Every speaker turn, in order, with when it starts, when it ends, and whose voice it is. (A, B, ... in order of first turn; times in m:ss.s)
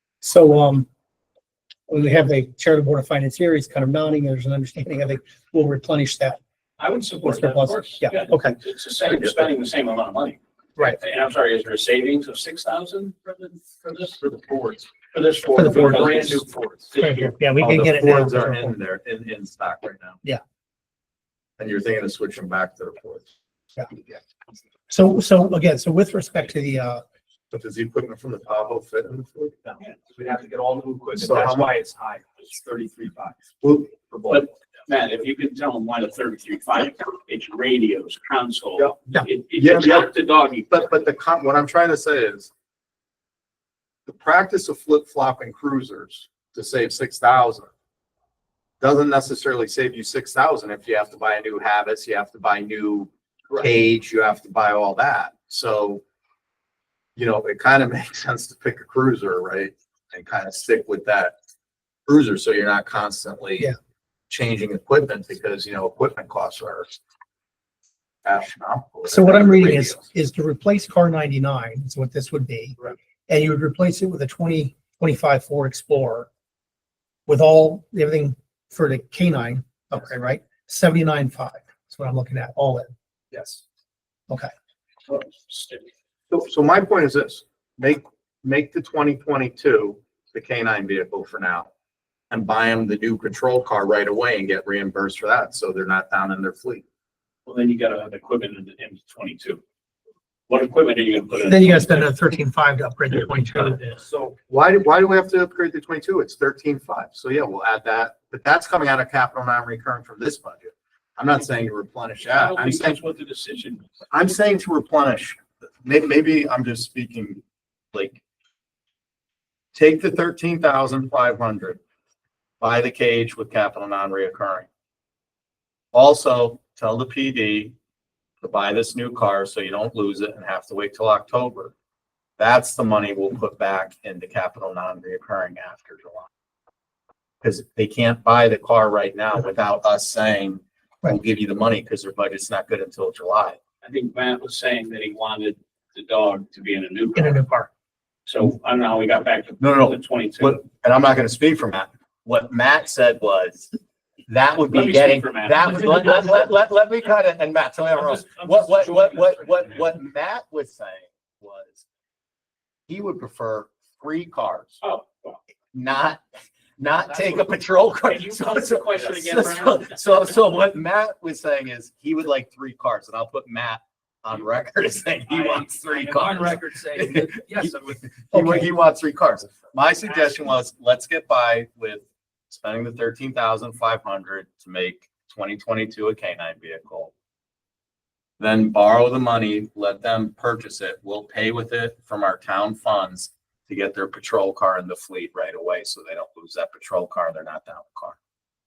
0:00.2-0:00.9 A
0:01.9-0:06.4 A
0:06.8-0:14.2 B
0:07.2-0:08.6 A
0:15.0-0:17.1 B
0:15.5-0:16.4 A
0:17.0-0:18.7 A
0:17.6-0:20.2 C
0:21.6-0:23.3 C
0:24.9-0:27.0 A
0:27.5-0:29.5 C
0:29.8-0:33.4 D
0:31.2-0:31.7 C
0:33.6-0:33.9 C
0:33.9-0:34.4 D
0:34.3-0:40.9 B
0:39.6-0:40.1 C
0:40.7-0:42.5 C
0:44.0-0:47.7 C
0:48.8-0:56.0 C
0:57.2-1:01.3 C
1:02.1-1:03.7 C
1:04.3-1:07.0 C
1:08.2-1:10.0 C
1:09.1-1:16.3 A
1:17.3-1:22.9 A
1:25.1-1:25.9 B
1:26.3-1:31.7 C
1:32.3-1:36.8 C
1:37.4-1:39.6 B
1:40.5-1:42.1 B
1:41.4-1:44.0 A
1:44.0-1:44.3 D
1:44.5-1:53.0 C
1:52.3-1:53.8 B
1:54.1-1:57.4 C
1:57.9-1:58.2 C
1:59.7-2:01.8 C
2:02.6-2:04.7 C
2:05.9-2:07.7 C
2:08.4-2:11.7 C
2:12.4-2:16.3 C
2:17.4-2:23.6 C
2:23.8-2:27.4 B
2:27.2-2:27.7 A
2:28.3-2:30.6 B
2:29.6-2:33.7 C
2:34.3-2:41.8 C
2:34.7-2:36.4 B
2:38.0-2:39.8 B
2:42.9-2:44.8 C
2:44.8-2:45.4 B
2:45.7-2:46.2 C
2:46.8-3:07.1 C
2:48.0-2:50.3 B
2:55.3-2:58.1 D
2:58.3-2:58.7 A
3:08.4-3:18.2 C